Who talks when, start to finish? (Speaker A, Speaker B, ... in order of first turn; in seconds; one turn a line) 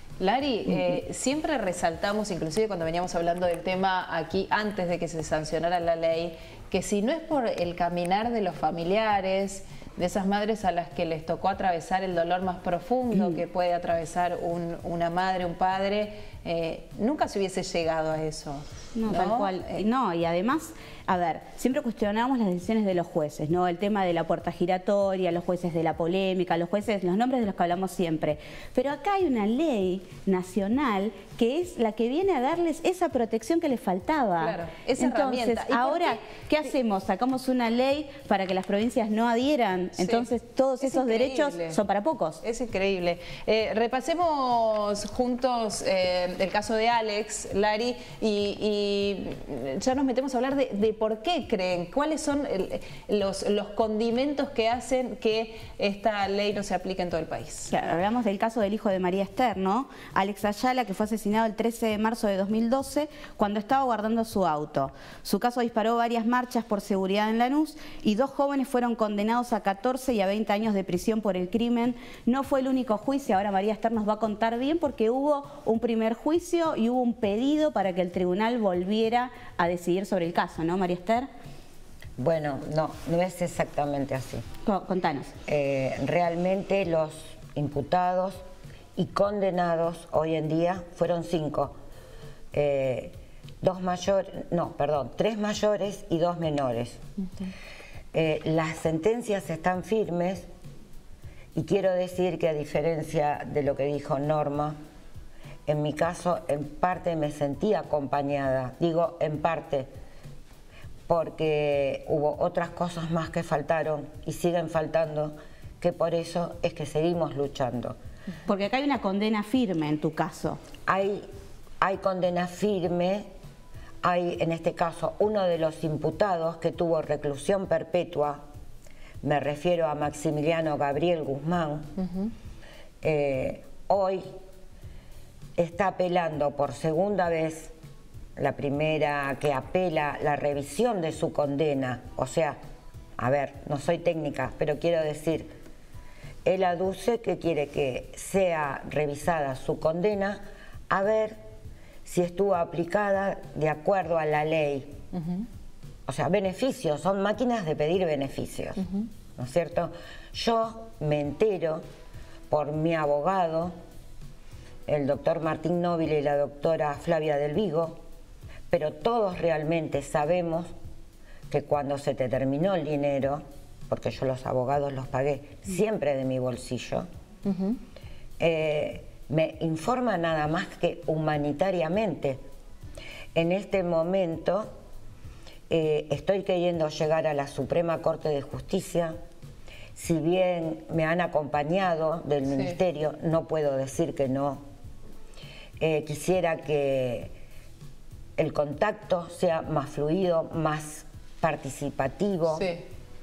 Speaker A: 0.2-19.8
Speaker B: 18.9-42.4
Speaker A: 34.4-36.2
Speaker A: 40.0-40.3
Speaker A: 40.8-41.8
Speaker A: 42.4-57.7
Speaker B: 57.7-81.3
Speaker C: 82.2-84.4
Speaker B: 84.6-85.3
Speaker C: 85.5-88.4
Speaker C: 89.0-91.8
Speaker C: 92.5-97.0
Speaker C: 98.1-100.5
Speaker C: 101.5-104.8
Speaker C: 105.7-109.9
Speaker C: 111.1-118.0
Speaker B: 118.5-120.6
Speaker C: 120.9-121.2
Speaker C: 121.8-123.3
Speaker C: 124.0-128.4
Speaker C: 129.2-131.9
Speaker C: 133.0-134.2
Speaker C: 135.6-137.7
Speaker C: 138.4-142.6
Speaker C: 143.2-145.5
Speaker C: 146.4-151.4
Speaker C: 152.1-154.9
Speaker A: 155.1-155.4
Speaker C: 156.1-158.8
Speaker C: 159.4-161.8
Speaker C: 162.5-163.7
Speaker C: 164.9-168.0
Speaker C: 168.7-170.7
Speaker C: 171.5-177.1
Speaker A: 177.5-177.8
Speaker C: 178.4-182.4
Speaker C: 183.3-184.7
Speaker C: 185.7-189.2
Speaker C: 190.0-194.6
Speaker A: 192.5-192.8
Speaker C: 195.8-197.3
Speaker C: 198.4-202.7
Speaker A: 202.5-202.8